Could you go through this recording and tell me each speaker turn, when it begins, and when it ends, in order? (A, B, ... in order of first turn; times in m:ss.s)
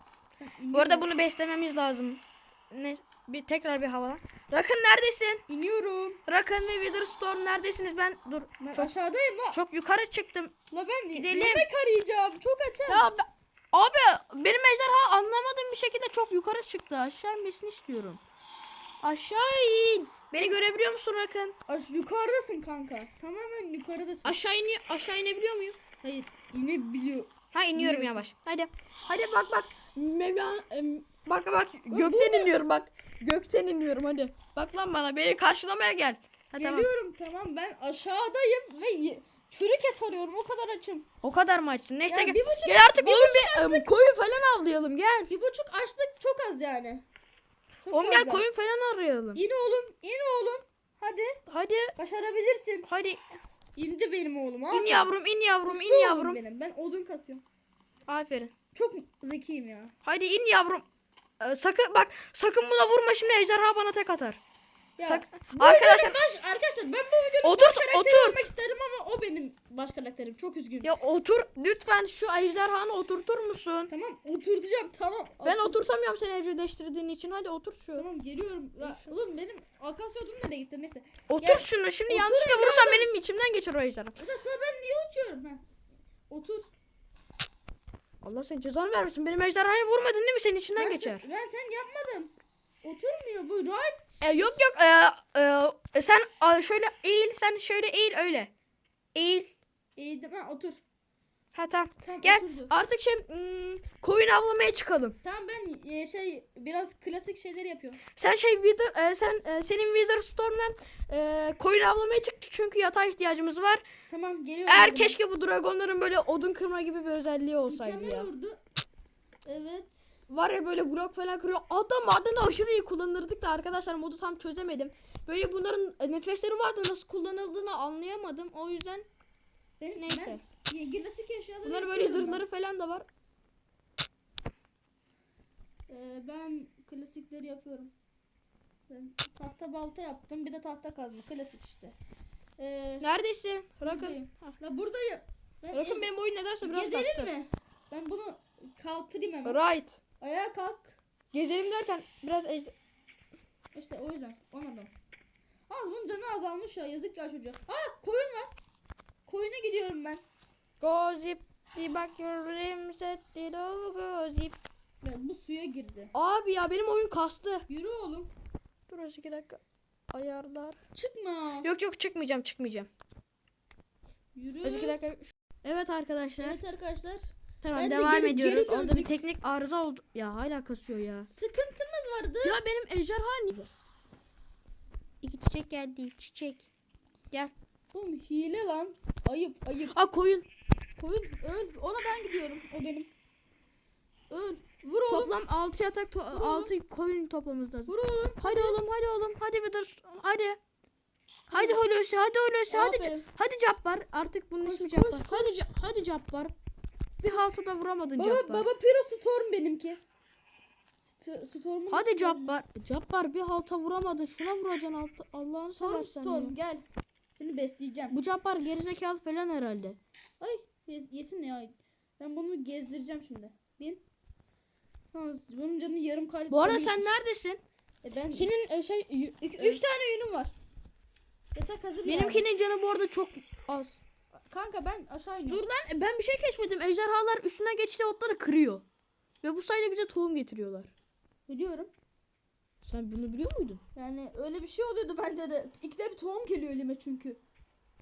0:00.4-0:01.1 A
0:00.7-0:05.4 B
0:05.5-0:06.2 A
0:06.3-0:08.9 B
0:08.6-0:09.6 A
0:09.5-0:10.5 B
0:10.7-0:13.0 A
0:11.1-0:11.6 B
0:12.9-0:18.2 B
0:19.0-0:21.6 B
0:21.7-0:24.4 A
0:24.2-0:25.8 B
0:26.0-0:28.2 A
0:27.5-0:36.9 B
0:31.9-0:32.5 A
0:36.6-0:41.1 A
0:41.2-0:45.3 B
0:42.1-0:43.9 A
0:45.3-0:47.0 A
0:47.8-0:48.4 A
0:47.9-0:49.4 B
0:49.3-0:51.4 A
0:51.5-0:51.9 B
0:52.0-0:52.9 A
0:52.8-0:53.2 B
0:53.8-0:55.1 A
0:54.7-0:56.4 B
0:55.6-0:57.4 A
0:58.1-0:58.5 B
0:58.7-0:59.9 A
1:00.0-1:00.8 B
1:01.4-1:04.4 B
1:05.0-1:10.9 A
1:05.0-1:06.2 B
1:07.4-1:08.5 B
1:10.8-1:13.9 B
1:13.9-1:15.8 A
1:15.4-1:18.0 B
1:17.9-1:23.1 A
1:18.8-1:19.1 B
1:21.3-1:24.2 B
1:24.2-1:25.6 A
1:26.3-1:26.7 A
1:28.2-1:31.2 B
1:30.8-1:32.3 A
1:32.8-1:34.3 A
1:34.2-1:38.5 B
1:39.1-1:39.5 B
1:40.0-1:40.8 A
1:41.5-1:45.2 B
1:42.0-1:42.7 A
1:45.2-1:48.0 A
1:48.1-1:53.8 B
1:54.1-1:55.2 A
1:54.7-1:58.3 B
1:57.7-1:58.6 A
1:59.4-2:00.0 A
2:00.3-2:09.1 B
2:09.8-2:12.4 A
2:10.0-2:10.4 B
2:11.6-2:13.1 B
2:15.9-2:17.9 A
2:18.9-2:22.0 A
2:22.6-2:23.0 A
2:23.0-2:24.5 B
2:23.8-2:26.1 A
2:25.7-2:27.3 B
2:26.6-2:29.6 A
2:29.4-2:30.0 B
2:30.2-2:31.0 A
2:31.3-2:32.7 B
2:33.7-2:34.9 A
2:35.7-2:38.5 A
2:39.2-2:40.2 A
2:40.8-2:44.6 B
2:45.0-2:46.1 A
2:46.1-2:47.6 B
2:47.7-2:48.3 A
2:48.9-2:50.8 B
2:50.9-2:51.7 A
2:51.6-2:52.9 B
2:54.3-2:55.0 A
2:54.6-2:56.6 B
2:56.4-2:59.1 A
2:57.6-3:01.3 B
3:01.3-3:02.6 A
3:02.4-3:03.7 B
3:05.2-3:06.7 B
3:07.9-3:10.0 A
3:09.9-3:10.5 B
3:11.0-3:13.1 A
3:14.3-3:15.3 A
3:15.1-3:20.6 B
3:16.3-3:16.7 A
3:17.9-3:18.8 A
3:21.5-3:26.5 B
3:21.5-3:21.8 A
3:22.7-3:23.2 A
3:24.6-3:25.6 A
3:27.2-3:28.7 B
3:28.2-3:30.0 A
3:31.0-3:32.5 A
3:31.9-3:36.6 B
3:35.7-3:38.2 A
3:38.1-3:40.0 B
3:40.4-3:44.0 A
3:45.1-3:47.1 A
3:46.5-3:47.6 B
3:48.0-3:48.5 A
3:48.3-3:49.8 B
3:49.5-3:50.5 A
3:51.5-3:52.5 A
3:52.0-3:54.0 B
3:54.5-3:55.6 A
3:55.5-3:58.8 B
3:59.4-4:00.9 B
4:01.5-4:01.9 A
4:02.8-4:03.8 B
4:03.9-4:07.4 A